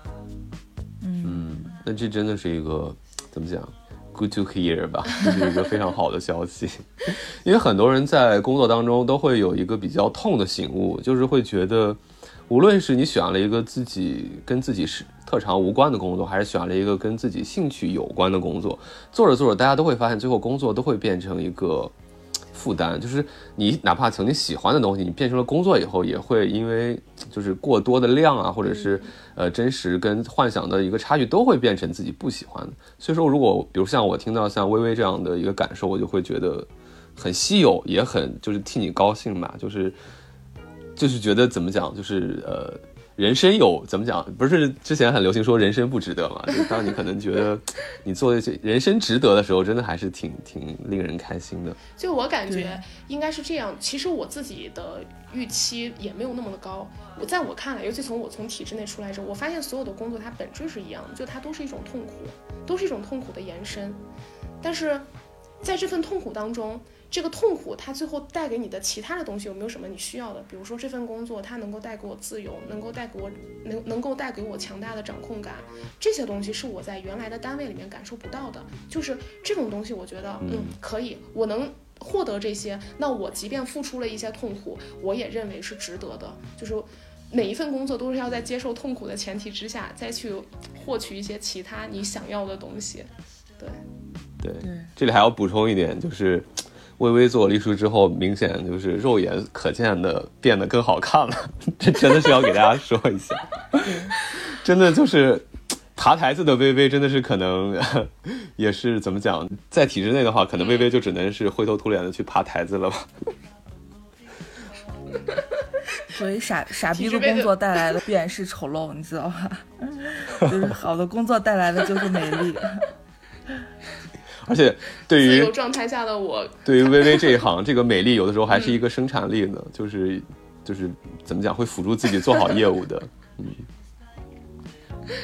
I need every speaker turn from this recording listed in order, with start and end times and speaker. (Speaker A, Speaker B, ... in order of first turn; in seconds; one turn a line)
Speaker A: 1.0-1.8
Speaker B: 1.2-21.9
Speaker B: 22.5-40.0
Speaker C: 28.6-29.1
Speaker B: 41.0-51.8
Speaker C: 52.0-64.0
Speaker A: 52.5-52.8
Speaker C: 64.6-65.1
Speaker C: 65.6-93.8
Speaker B: 80.4-80.7
Speaker B: 94.4-96.5
Speaker A: 94.6-94.9
Speaker B: 97.0-113.1
Speaker A: 103.8-104.1
Speaker C: 110.6-110.9
Speaker A: 116.1-122.8
Speaker C: 116.9-118.0
Speaker B: 124.4-125.5
Speaker C: 125.1-127.4
Speaker B: 126.6-133.6
Speaker C: 128.5-128.8